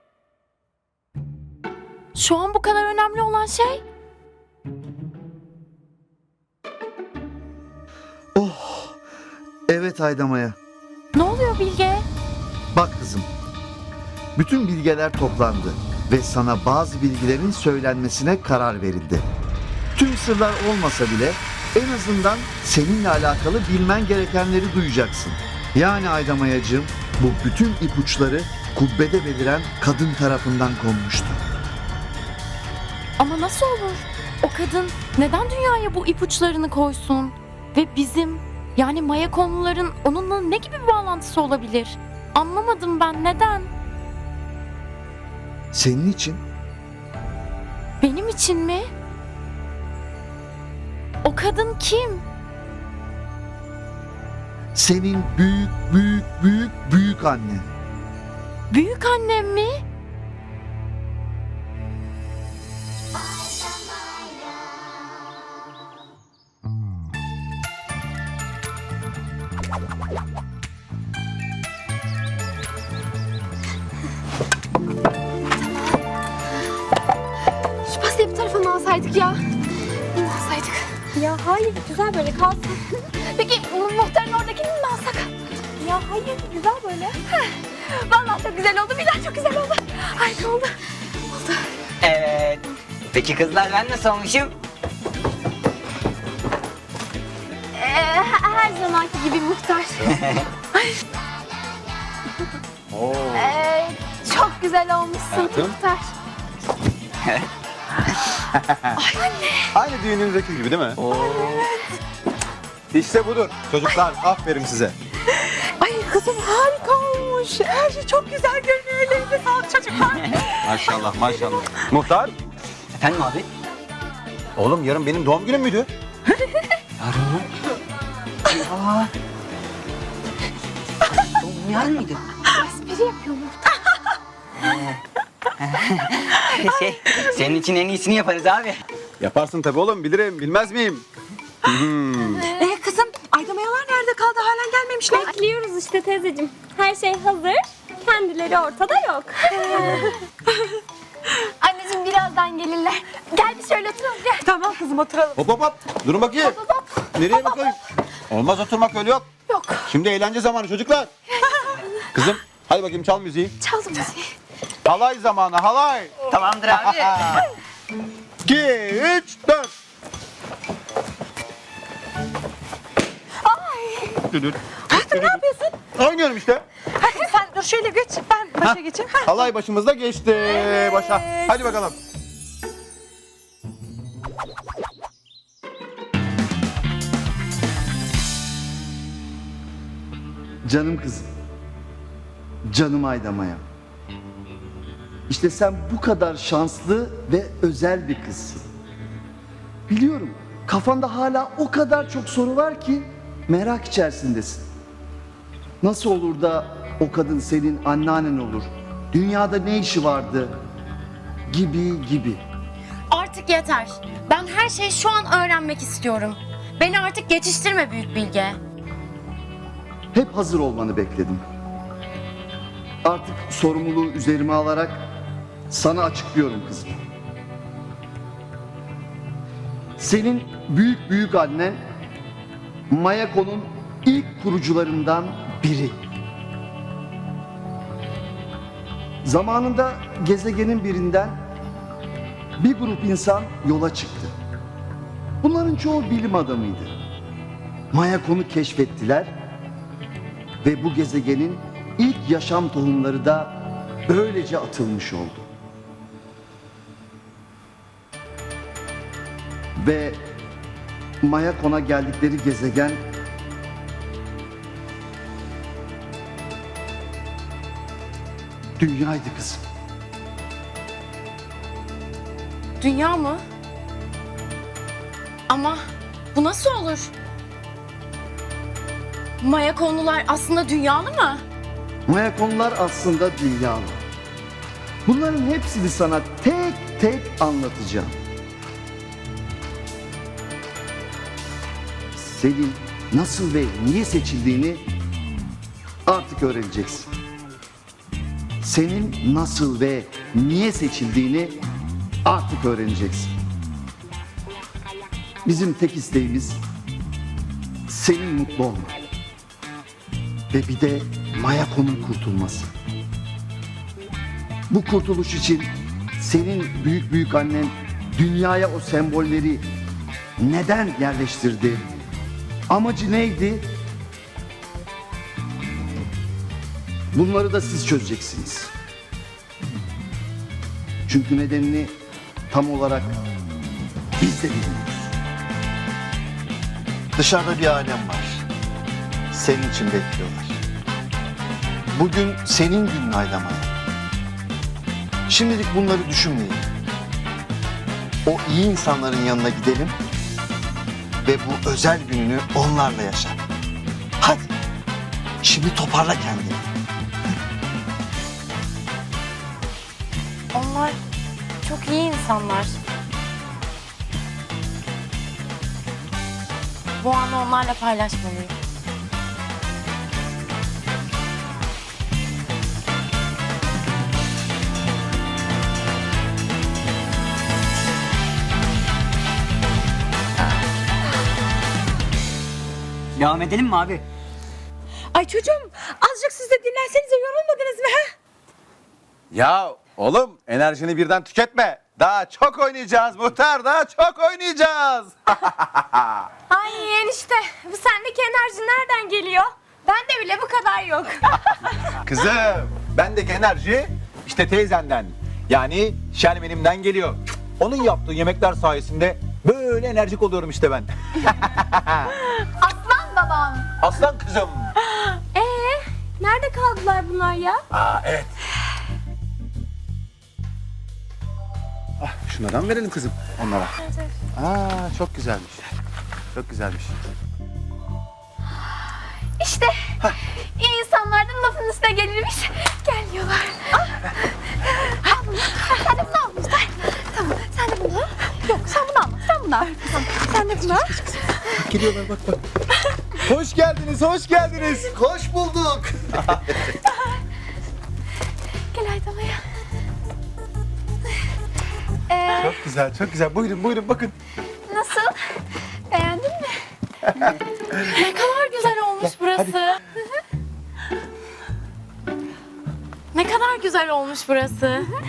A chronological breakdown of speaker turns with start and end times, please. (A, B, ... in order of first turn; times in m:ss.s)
0:02.2-0:03.8 A
0:08.4-0:09.0 B
0:09.7-0:10.6 B
0:11.1-0:12.0 A
0:12.7-0:13.3 B
0:14.4-0:19.2 B
0:20.0-0:31.4 B
0:33.2-0:43.7 A
0:45.7-0:46.4 B
0:48.0-0:48.9 A
0:51.2-0:52.2 A
0:54.8-0:57.7 B
0:58.7-0:59.8 A
1:15.6-1:16.0 C
1:17.9-1:19.4 C
1:20.2-1:20.9 C
1:21.2-1:22.7 D
1:23.2-1:25.3 C
1:25.8-1:27.2 D
1:27.3-1:30.7 C
1:31.3-1:31.7 C
1:32.0-1:34.6 E
1:37.8-1:40.2 C
1:40.2-1:40.5 E
1:42.9-1:43.5 F
1:43.3-1:46.1 C
1:45.3-1:45.8 F
1:48.5-1:49.0 F
1:49.0-1:49.7 C
1:49.7-1:51.0 F
1:51.0-1:51.7 E
1:51.1-1:51.7 C
1:52.9-1:55.0 F
1:55.3-2:01.6 D
2:00.6-2:02.4 F
2:02.9-2:03.5 E
2:04.6-2:05.9 F
2:07.1-2:07.4 E
2:08.8-2:09.1 E
2:11.4-2:12.2 E
2:12.6-2:13.6 C
2:15.6-2:16.0 E
2:16.6-2:18.8 E
2:16.6-2:16.9 C
2:19.2-2:21.1 F
2:21.6-2:22.5 F
2:22.6-2:25.3 D
2:25.7-2:27.6 G
2:28.2-2:29.3 G
2:29.5-2:30.1 C
2:31.6-2:34.5 C
2:34.4-2:35.4 D
2:35.4-2:36.6 F
2:36.4-2:37.7 C
2:37.2-2:37.8 F
2:38.3-2:39.3 F
2:39.5-2:39.8 C
2:39.9-2:41.1 F
2:42.1-2:43.5 F
2:43.6-2:44.3 C
2:44.8-2:46.2 F
2:46.3-2:47.3 E
2:46.7-2:47.4 F
2:48.4-2:49.7 F
2:53.5-2:54.2 C
2:54.3-2:55.4 F
2:54.9-2:55.7 D
2:56.0-2:56.6 F
2:57.0-2:59.5 D
2:58.6-3:02.0 F
3:00.5-3:01.5 D
3:10.7-3:11.3 B
3:12.7-3:13.6 B
3:15.3-3:18.7 B
3:19.9-3:24.7 B
3:25.8-3:30.5 B
3:31.5-3:32.4 B
3:33.1-3:38.6 A
3:40.1-3:41.4 B
3:43.0-3:45.0 B
3:45.7-3:47.0 B
3:50.0-3:51.8 B
3:52.9-3:56.0 B
3:59.2-4:01.4 B
4:02.6-4:04.3 B
4:05.4-4:06.9 B
4:07.9-4:09.3 B
4:10.6-4:15.5 B
4:19.8-4:20.2 B
4:21.2-4:23.0 B
4:28.8-4:29.6 B
4:32.8-4:33.4 A
4:35.5-4:35.8 A
4:36.3-4:37.1 A
4:39.4-4:41.4 A
4:42.1-4:44.0 B
4:45.1-4:48.2 B
4:52.2-4:54.8 B
4:56.1-4:57.1 B
4:58.6-5:01.6 B
5:02.2-5:03.3 B
5:05.4-5:06.6 B
5:07.9-5:09.0 B
5:10.5-5:12.7 B
5:14.7-5:19.6 B
5:20.4-5:21.8 B
5:22.7-5:23.7 B
5:27.1-5:28.7 B
5:31.1-5:31.9 B
5:32.5-5:33.2 B
5:34.2-5:35.1 B
5:37.2-5:38.4 B
5:39.3-5:40.6 B
5:41.9-5:43.7 B
5:45.3-5:46.7 B
5:48.2-5:50.0 B
5:51.2-5:53.4 B
5:54.2-5:54.5 B
5:55.4-5:56.7 B
6:00.5-6:01.0 A
6:01.6-6:02.8 A
6:07.0-6:08.6 A
6:23.2-6:24.0 E
6:25.1-6:27.9 D
6:29.3-6:36.2 F
6:36.5-6:39.3 C
6:39.9-6:41.2 C
6:42.0-6:52.2 F
6:52.6-6:53.7 C
6:53.8-6:54.7 F
6:56.7-6:57.4 C
6:57.7-6:58.3 F
7:02.0-7:03.7 F
7:04.4-7:05.6 F
7:06.3-7:06.9 F
7:09.4-7:21.5 C
7:18.5-7:19.4 D
7:21.6-7:22.4 F
7:23.2-7:24.9 F
7:24.8-7:26.4 B
7:28.7-7:29.4 C
7:32.1-7:32.6 C
7:32.4-7:34.1 F
7:34.7-7:36.6 C
7:37.9-7:39.8 A
7:43.1-7:44.9 A